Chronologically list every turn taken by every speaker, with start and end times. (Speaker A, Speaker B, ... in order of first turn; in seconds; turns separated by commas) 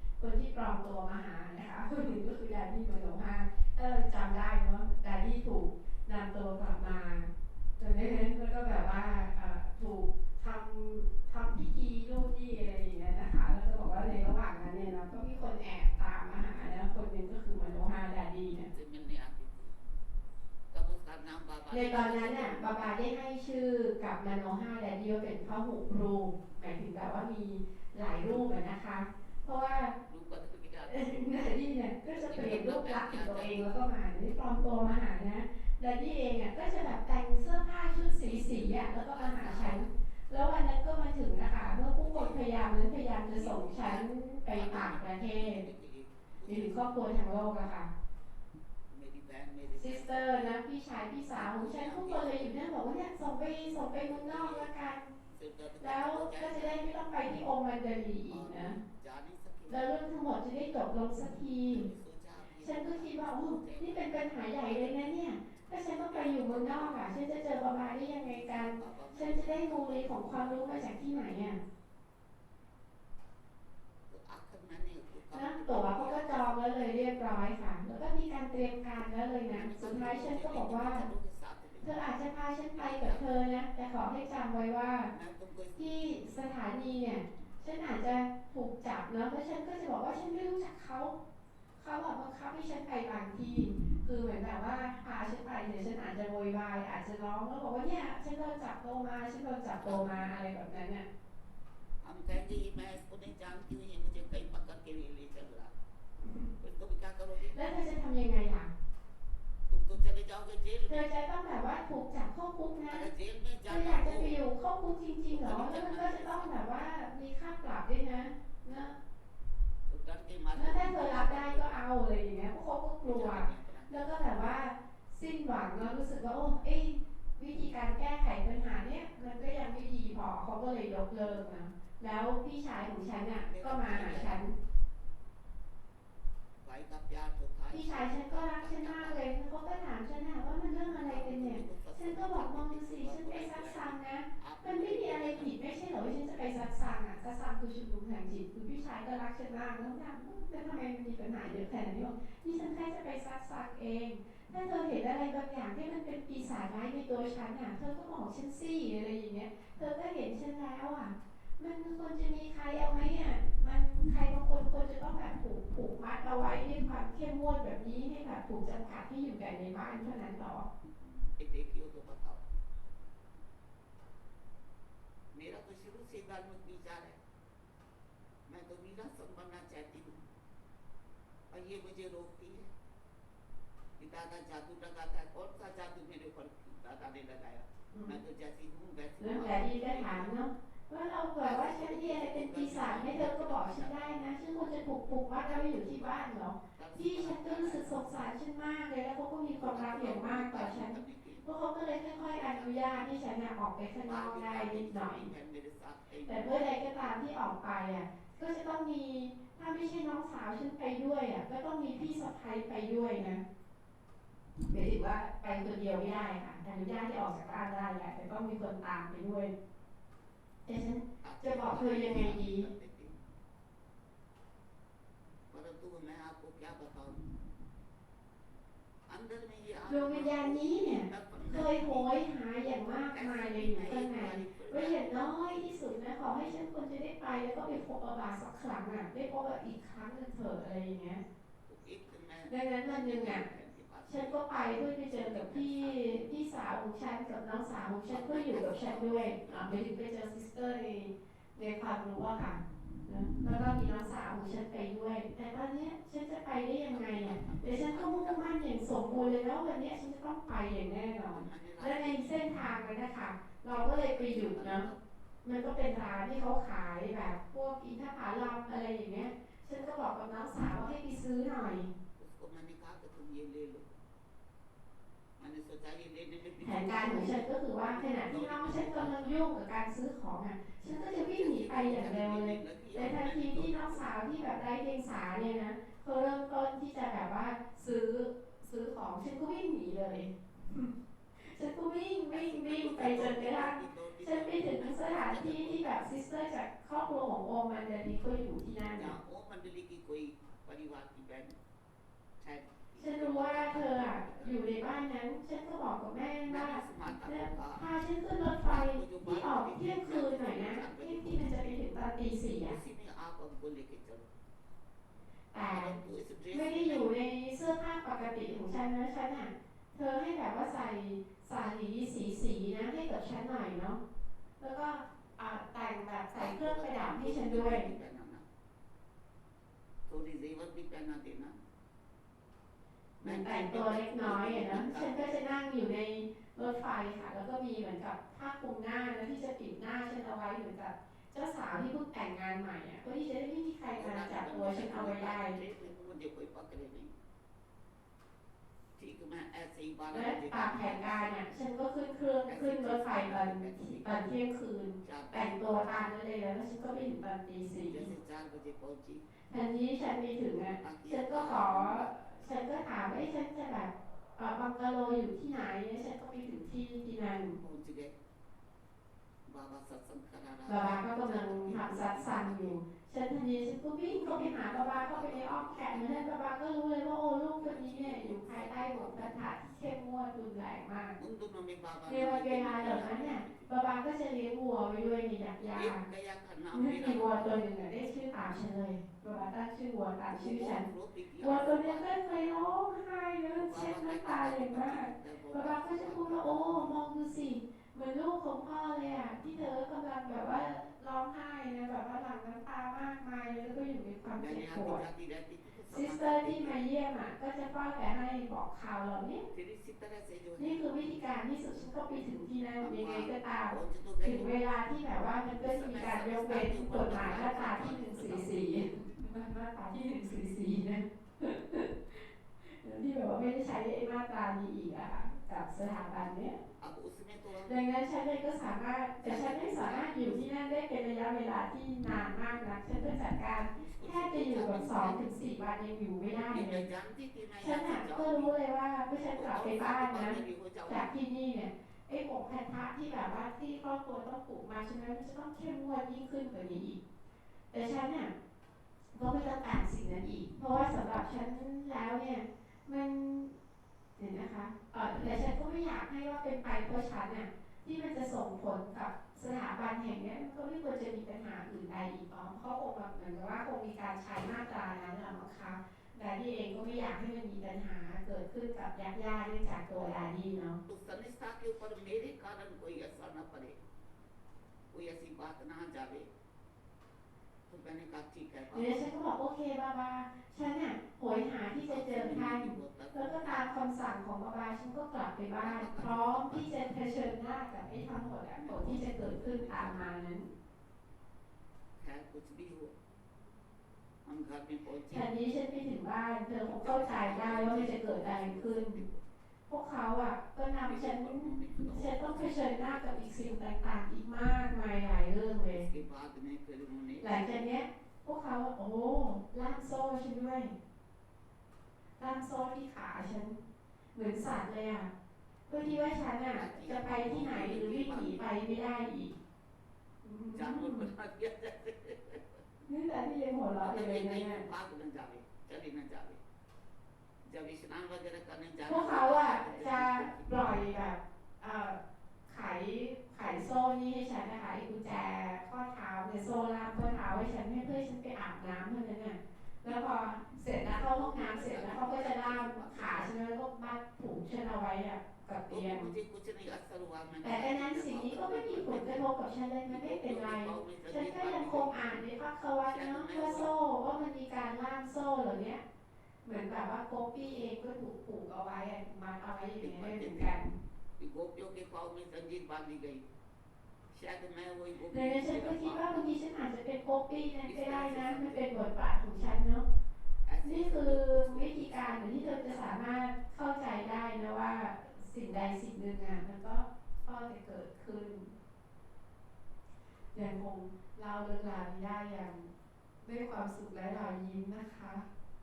Speaker A: 0.2-18.7, Speaker B: 18.7-19.8, Speaker B: 20.7-23.0, Speaker A: 21.7-29.9, Speaker B: 28.2-28.5, Speaker B: 30.1-31.5, Speaker A: 30.9-45.6, Speaker B: 32.1-33.9, Speaker B: 38.3-39.9, Speaker B: 42.0-42.5, Speaker B: 43.3-46.8, Speaker A: 46.5-47.9, Speaker B: 48.9-50.6, Speaker A: 49.8-55.1, Speaker B: 51.3-52.5, Speaker B: 54.0-54.7, Speaker B: 55.3-57.0, Speaker A: 55.8-58.8, Speaker B: 58.3-60.0, Speaker A: 59.7-61.9, Speaker B: 61.7-71.4, Speaker A: 62.6-71.6, Speaker B: 74.1-76.8, Speaker A: 75.3-81.0, Speaker B: 79.5-82.1, Speaker A: 81.8-85.1, Speaker B: 82.7-83.4, Speaker B: 85.1-86.4, Speaker A: 85.8-91.2, Speaker A: 91.8-101.1, Speaker B: 99.8-100.4, Speaker B: 102.0-105.7, Speaker A: 106.2-106.5, Speaker B: 106.6-107.6, Speaker A: 107.5-108.7, Speaker B: 109.7-111.1, Speaker A: 110.9-113.1, Speaker B: 112.9-114.4, Speaker A: 113.7-119.0, Speaker B: 115.3-116.6, Speaker B: 119.9-121.7, Speaker A: 120.5-134.5, Speaker B: 123.0-124.5, Speaker B: 133.3-134.4, Speaker B: 136.6-139.3, Speaker A: 137.7-170.7, Speaker B: 141.0-145.5, Speaker B: 170.9-172.4, Speaker B: 175.3-177.2, Speaker B: 178.5-180.2, Speaker B: 181.5-182.7, Speaker B: 184.0-190.3, Speaker A: 189.2-205.3, Speaker B: 191.4-194.9, Speaker B: 195.4-196.2, Speaker B: 196.7-198.2, Speaker B: 199.5-203.2, Speaker B: 203.9-207.1, Speaker A: 206.3-213.4, Speaker A: 214.7-219.5, Speaker A: 220.7-222.7, Speaker B: 221.2-223.2, Speaker B: 225.5-227.3, Speaker B: 229.1-232.2, Speaker A: 229.9-241.2, Speaker B: 233.1-235.6, Speaker B: 241.7-246.2, Speaker A: 242.5-243.5, Speaker A: 244.1-264.9, Speaker B: 248.1-249.8, Speaker B: 256.9-258.6, Speaker B: 261.3-262.6, Speaker B: 263.7-265.0, Speaker A: 265.4-271.9, Speaker B: 272.2-273.9, Speaker B: 275.4-279.4, Speaker A: 276.6-299.1, Speaker B: 281.1-284.4, Speaker B: 292.3-296.1, Speaker B: 298.9-301.6, Speaker B: 302.4-305.0, Speaker A: 303.0-312.8, Speaker B: 306.5-307.9, Speaker B: 308.6-311.8, Speaker B: 312.6-314.3, Speaker A: 315.5-315.9, Speaker B: 315.7-317.1, Speaker A: 316.5-324.0, Speaker A: 324.6-327.9, Speaker B: 326.4-328.5, Speaker B: 330.1-331.6, Speaker B: 333.2-335.4, Speaker A: 333.2-345.6, Speaker B: 343.9-347.1, Speaker B: 349.0-351.3, Speaker A: 350.1-358.1, Speaker B: 352.4-354.3, Speaker B: 355.0-355.8, Speaker B: 357.9-359.3, Speaker A: 359.5-367.6, Speaker B: 360.8-362.1, Speaker B: 367.6-368.1, Speaker B: 369.5-372.8, Speaker A: 370.7-381.2, Speaker B: 374.1-376.1, Speaker B: 377.6-379.4, Speaker B: 381.2-383.7, Speaker A: 382.1-386.0, Speaker B: 385.7-387.7, Speaker A: 386.7-390.9, Speaker B: 390.3-392.1, Speaker A: 391.4-405.0, Speaker B: 393.6-396.9, Speaker B: 404.4-406.9, Speaker A: 405.9-409.4, Speaker B: 409.5-411.1, Speaker A: 410.6-426.6, Speaker B: 412.8-414.5, Speaker B: 415.6-418.9, Speaker B: 426.8-427.8, Speaker A: 427.7-436.8, Speaker B: 429.2-430.4, Speaker B: 433.7-435.3, Speaker B: 436.5-438.6, Speaker A: 437.6-440.4, Speaker B: 439.3-441.1, Speaker A: 440.9-447.0, Speaker A: 447.7-448.3, Speaker A: 449.1-453.6, Speaker A: 454.2-470.8, Speaker B: 470.9-473.8, Speaker B: 474.9-476.3, Speaker B: 477.7-479.0, Speaker A: 478.7-490.5, Speaker B: 481.9-483.7, Speaker B: 485.6-486.8, Speaker B: 488.6-490.1, Speaker B: 492.0-492.9, Speaker B: 494.2-495.3, Speaker A: 495.1-499.0, Speaker B: 496.6-499.3, Speaker A: 499.7-505.9, Speaker B: 500.8-503.6, Speaker B: 505.7-507.7, Speaker A: 507.2-510.7, Speaker A: 512.2-513.6, Speaker A: 514.1-515.1, Speaker A: 515.7-519.3, Speaker B: 516.5-518.4, Speaker A: 520.2-521.1, Speaker B: 520.5-522.6, Speaker A: 522.9-524.6, Speaker B: 523.8-526.4, Speaker B: 527.5-530.7, Speaker A: 528.9-546.1, Speaker B: 540.9-543.4, Speaker B: 545.7-549.3, Speaker A: 547.4-555.8, Speaker B: 549.9-552.2, Speaker B: 552.8-553.7, Speaker A: 556.4-560.7, Speaker B: 559.8-560.5, Speaker B: 561.2-563.3, Speaker B: 564.1-566.4, Speaker A: 565.1-569.9, Speaker B: 567.6-568.6, Speaker B: 570.5-573.0, Speaker A: 570.6-578.5, Speaker A: 580.3-582.7, Speaker A: 583.2-585.3